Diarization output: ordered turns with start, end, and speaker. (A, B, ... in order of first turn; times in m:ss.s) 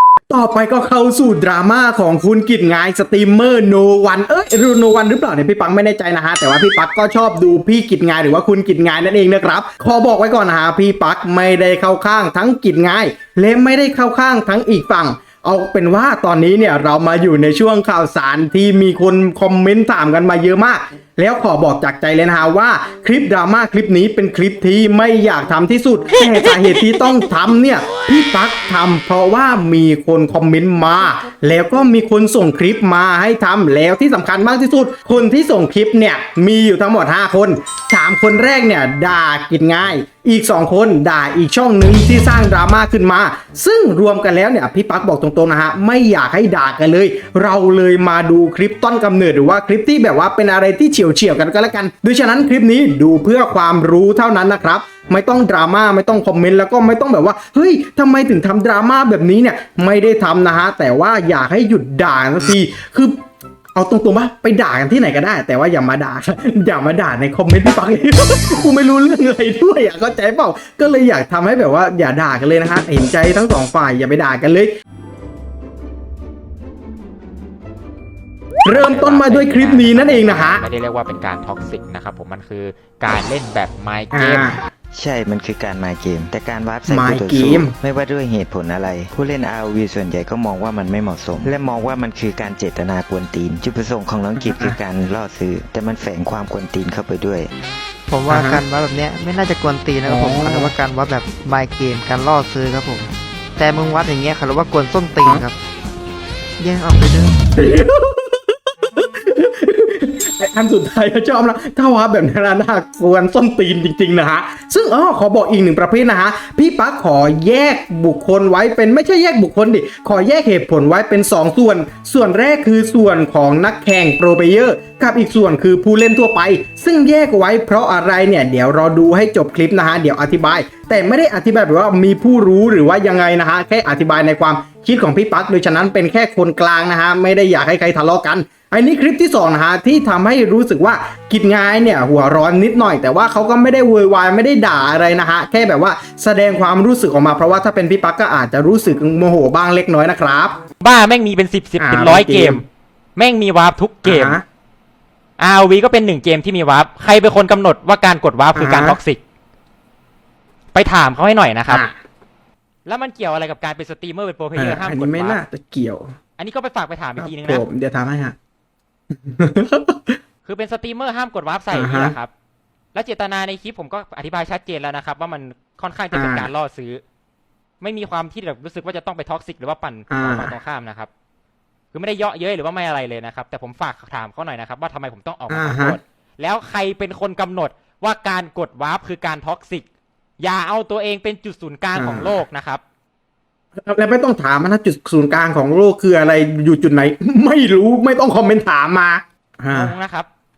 0:00.3-1:03.2 A
1:03.8-1:14.7 A
1:18.6-1:20.6 A
1:18.7-1:24.5 B
1:24.1-1:24.6 A
1:24.9-1:37.5 C
1:26.9-1:27.7 A
1:34.5-1:34.8 A
1:38.1-1:45.6 D
1:38.3-1:38.6 A
1:40.0-1:40.7 A
1:46.6-1:47.5 D
1:47.6-2:30.6 A
2:30.8-2:32.6 B
2:31.8-2:32.6 A
2:33.2-2:34.4 B
2:34.0-2:34.4 A
2:35.4-2:39.2 B
2:38.6-2:39.0 A
2:40.7-2:41.8 B
2:41.7-2:42.0 A
2:42.9-2:45.4 B
2:44.6-2:46.1 A
2:46.4-2:47.6 B
2:47.2-2:48.4 A
2:49.2-2:50.2 A
2:50.5-2:52.3 B
2:51.7-2:52.2 A
2:52.9-2:57.0 B
2:56.1-2:56.5 A
2:57.8-3:01.1 B
3:00.1-3:00.5 A
3:01.9-3:09.8 B
3:05.5-3:06.0 A
3:10.4-3:12.8 B
3:12.0-3:12.4 A
3:13.8-3:19.9 A
3:19.7-3:20.3 B